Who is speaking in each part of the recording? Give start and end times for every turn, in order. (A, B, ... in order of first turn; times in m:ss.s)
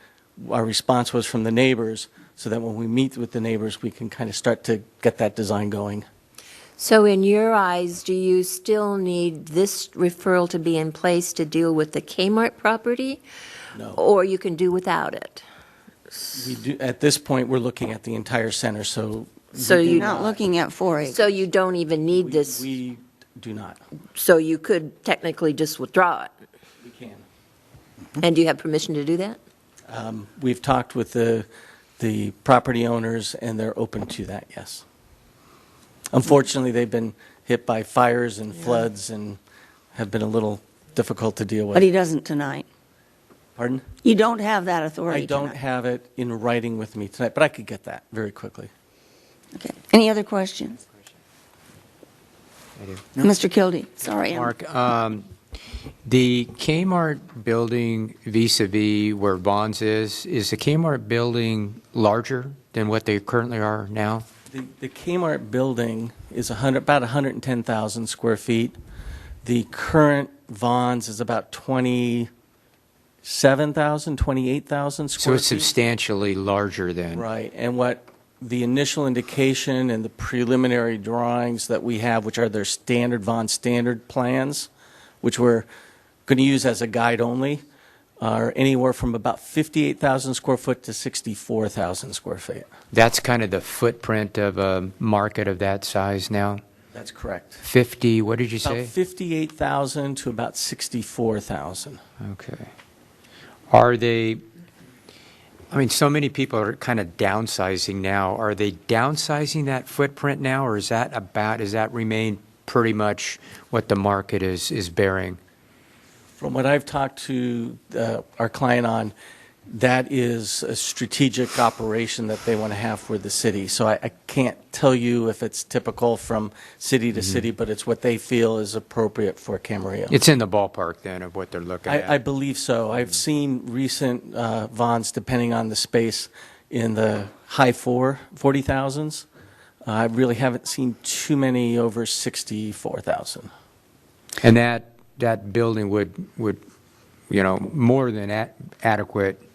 0:00.4-0:06.0 A
0:06.8-0:13.2 B
0:13.7-0:14.0 A
0:13.9-0:15.4 B
0:16.3-0:20.4 A
0:19.5-0:20.3 B
0:19.8-0:21.2 C
0:21.0-0:22.6 B
0:22.2-0:23.8 A
0:24.1-0:26.3 B
0:26.8-0:27.2 A
0:28.2-0:29.4 B
0:29.9-0:31.5 A
0:32.0-0:34.8 A
0:36.1-0:39.4 A
0:39.9-0:41.8 A
0:41.7-0:42.6 C
0:43.6-0:43.8 A
0:44.0-0:45.5 C
0:45.1-0:48.7 A
0:49.5-0:50.8 C
0:52.8-0:53.0 D
0:53.2-0:54.5 C
0:54.2-0:55.3 D
0:56.0-1:04.2 D
1:04.5-1:08.8 A
1:09.4-1:12.3 A
1:13.2-1:15.7 A
1:15.2-1:17.2 D
1:17.1-1:24.7 A
1:25.2-1:25.7 A
1:26.3-1:27.6 A
1:28.2-1:32.7 A
1:32.9-1:36.6 D
1:36.9-1:37.6 A
1:37.6-1:38.9 D
1:38.6-1:42.0 A
1:42.2-1:42.7 D
1:43.7-1:44.4 D
1:45.7-1:55.4 D
1:56.4-1:59.1 A
1:59.7-2:10.2 A
2:07.2-2:07.4 D
2:10.1-2:12.2 D
2:11.8-2:19.2 A
2:19.8-2:23.5 A
2:24.4-2:26.6 D
2:27.3-2:29.4 D